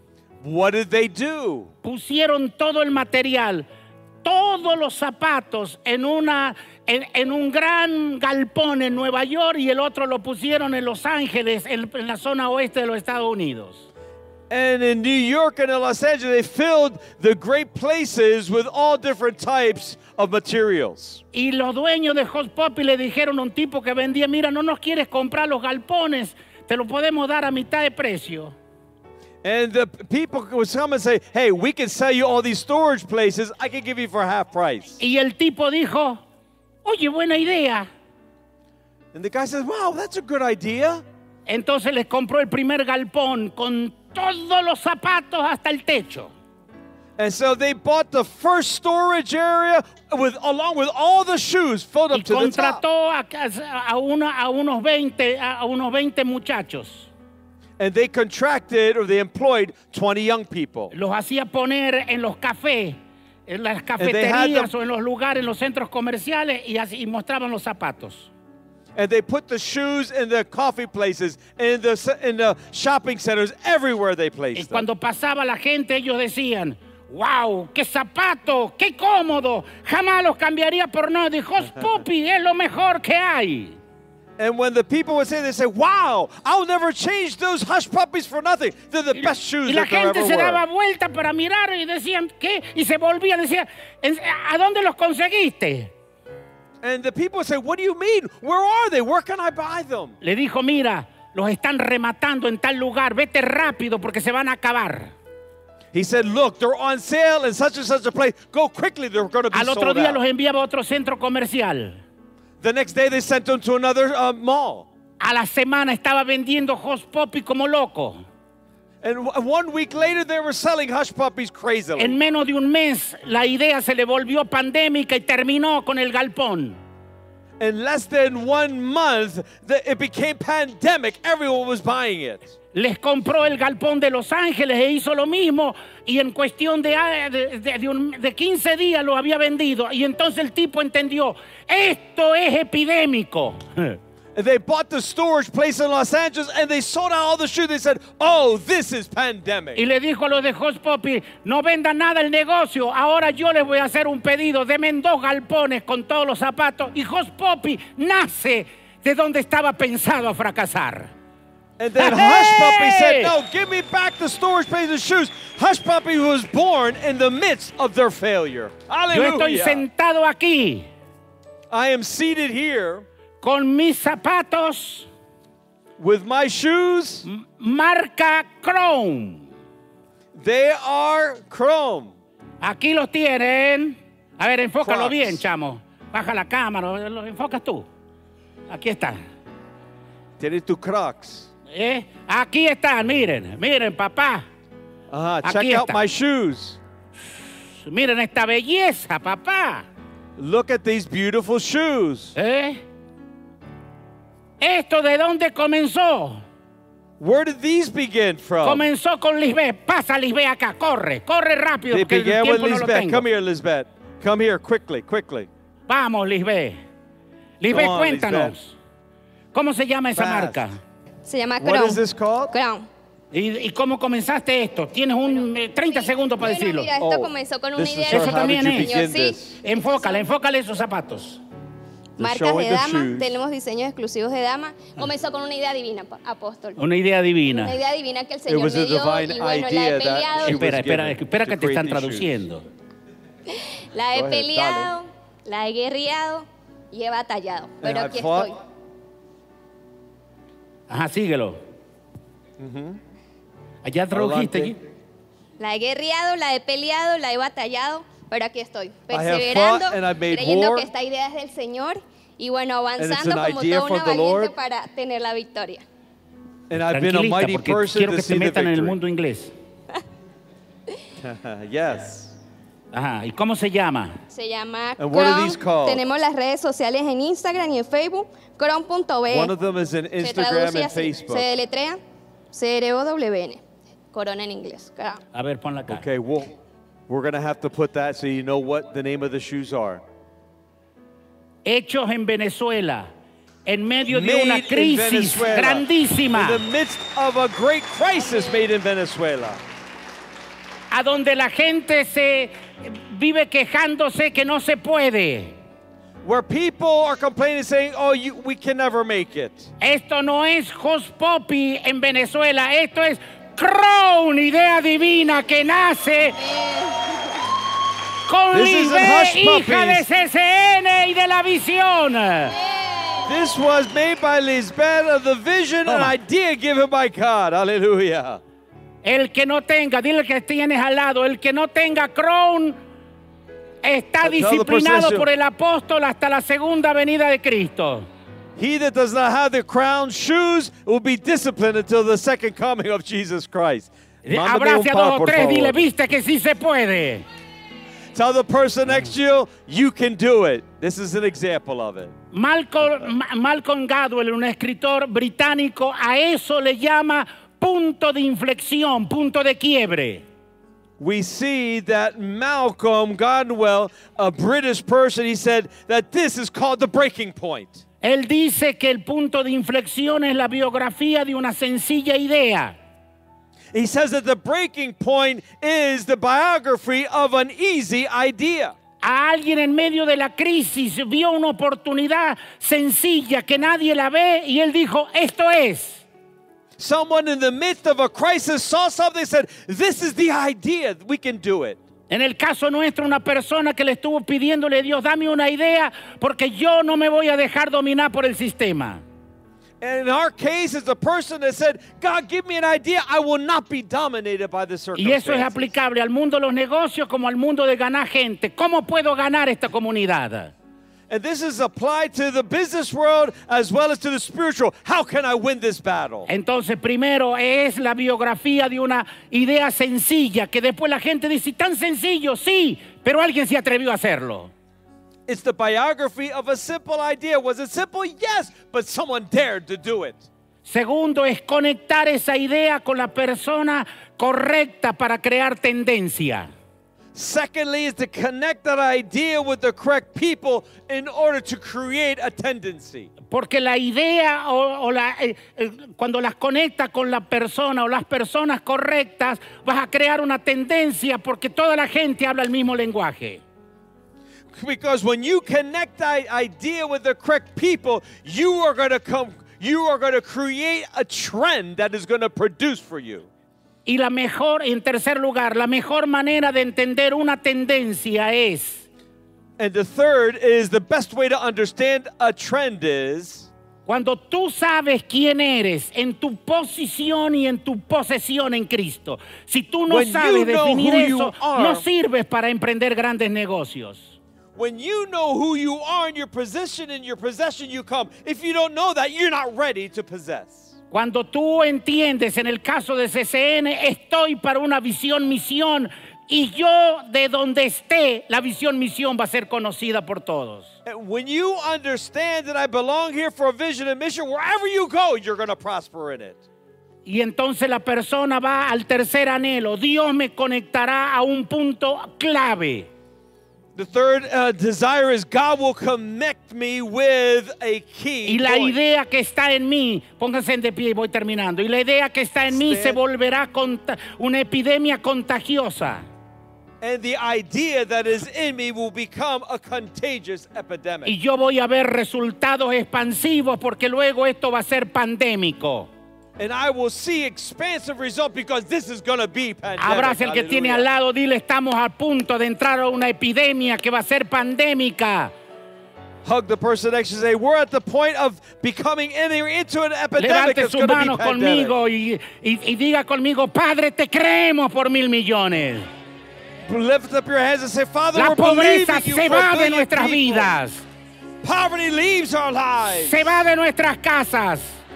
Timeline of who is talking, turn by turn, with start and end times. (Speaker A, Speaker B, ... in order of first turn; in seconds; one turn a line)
Speaker A: 0.4-1.7
Speaker B: 1.8-3.6
Speaker B: 4.2-13.9
Speaker A: 14.5-21.2
Speaker B: 21.3-28.5
Speaker A: 29.4-35.0
Speaker B: 35.0-36.2
Speaker B: 36.8-37.9
Speaker A: 39.1-41.0
Speaker B: 41.5-46.3
Speaker A: 47.2-52.8
Speaker B: 52.1-57.1
Speaker A: 57.8-60.9
Speaker B: 60.9-68.3
Speaker A: 64.0-64.7
Speaker A: 68.9-74.9
Speaker B: 74.5-83.8
Speaker A: 84.4-90.6
Speaker B: 89.1-95.9
Speaker A: 96.8-100.2
Speaker B: 100.2-105.1
Speaker A: 105.9-110.2
Speaker B: 109.5-112.0
Speaker A: 112.6-114.9
Speaker B: 115.2-118.2
Speaker A: 119.0-122.2
Speaker B: 122.0-126.8
Speaker A: 127.6-132.5
Speaker B: 132.7-144.0
Speaker A: 144.3-149.8
Speaker B: 149.8-161.1
Speaker A: 161.8-169.8
Speaker B: 162.0-163.3
Speaker B: 169.1-170.9
Speaker A: 171.7-173.1
Speaker B: 173.4-175.1
Speaker A: 176.0-177.2
Speaker B: 177.2-179.5
Speaker A: 180.3-182.1
Speaker B: 182.6-187.9
Speaker A: 184.8-185.4
Speaker B: 188.7-189.2
Speaker A: 190.4-191.5
Speaker B: 191.7-194.4
Speaker A: 195.1-196.8
Speaker B: 195.4-196.0
Speaker B: 197.8-199.8
Speaker A: 200.4-202.3
Speaker B: 202.3-202.8
Speaker B: 204.6-206.4
Speaker A: 207.2-208.8
Speaker B: 208.6-213.2
Speaker A: 211.9-215.5
Speaker B: 215.9-216.8
Speaker B: 217.6-218.8
Speaker A: 217.7-218.5
Speaker B: 219.5-220.8
Speaker A: 220.1-220.6
Speaker C: 221.2-222.9
Speaker A: 221.6-222.5
Speaker B: 223.3-226.9
Speaker C: 226.4-230.2
Speaker A: 227.0-229.6
Speaker B: 228.1-229.0
Speaker B: 229.6-231.4
Speaker A: 232.2-233.3
Speaker C: 232.2-236.8
Speaker B: 236.8-237.8
Speaker C: 237.5-240.6
Speaker A: 238.4-242.4
Speaker B: 240.4-242.6
Speaker C: 243.5-248.6
Speaker A: 244.1-244.9
Speaker A: 247.8-248.6
Speaker B: 250.9-251.6
Speaker A: 252.6-253.0
Speaker B: 253.8-254.8
Speaker A: 254.1-254.7
Speaker C: 255.6-265.8
Speaker A: 259.1-260.9
Speaker A: 263.0-264.5
Speaker A: 266.7-269.0
Speaker B: 266.9-269.5
Speaker A: 271.2-272.3
Speaker B: 272.9-274.2
Speaker C: 274.3-279.5
Speaker A: 275.0-276.0
Speaker A: 279.3-281.5
Speaker C: 280.2-282.0
Speaker C: 282.5-285.2
Speaker B: 285.3-286.0
Speaker A: 285.9-286.5
Speaker A: 287.1-290.0
Speaker B: 291.6-293.1
Speaker B: 293.6-296.6
Speaker A: 294.1-299.6
Speaker B: 300.9-305.6
Speaker A: 306.2-309.7
Speaker B: 309.8-316.4
Speaker C: 316.4-317.4
Speaker B: 318.2-322.6
Speaker A: 318.5-320.1
Speaker C: 322.5-323.3
Speaker A: 323.2-328.4
Speaker B: 325.9-326.1
Speaker B: 329.0-332.8
Speaker B: 333.8-338.1
Speaker A: 334.2-335.3
Speaker A: 338.6-345.9
Speaker B: 344.2-347.2
Speaker A: 348.1-352.1
Speaker B: 352.3-360.2
Speaker A: 361.0-367.8
Speaker B: 368.0-372.8
Speaker A: 373.7-378.7
Speaker B: 379.0-386.0
Speaker A: 386.8-391.8
Speaker B: 392.1-399.0
Speaker A: 399.8-405.7
Speaker B: 404.9-410.5
Speaker A: 411.1-416.3
Speaker B: 416.3-424.5
Speaker A: 425.3-430.2
Speaker B: 430.6-436.5
Speaker A: 437.1-443.1
Speaker B: 443.3-453.4
Speaker A: 454.5-463.3
Speaker B: 463.9-468.9
Speaker A: 469.6-473.5
Speaker B: 473.9-484.2
Speaker A: 479.9-481.8
Speaker A: 484.5-490.7
Speaker B: 490.9-500.7
Speaker A: 500.8-506.4
Speaker B: 507.1-512.9
Speaker A: 513.7-518.8
Speaker B: 518.2-526.0
Speaker A: 522.5-523.0
Speaker A: 526.8-531.1
Speaker B: 531.0-535.9
Speaker A: 536.4-540.9
Speaker B: 539.8-545.3
Speaker A: 546.2-551.7
Speaker B: 550.2-555.9
Speaker A: 556.6-560.5
Speaker B: 558.1-560.8
Speaker A: 561.4-563.2
Speaker B: 562.9-564.8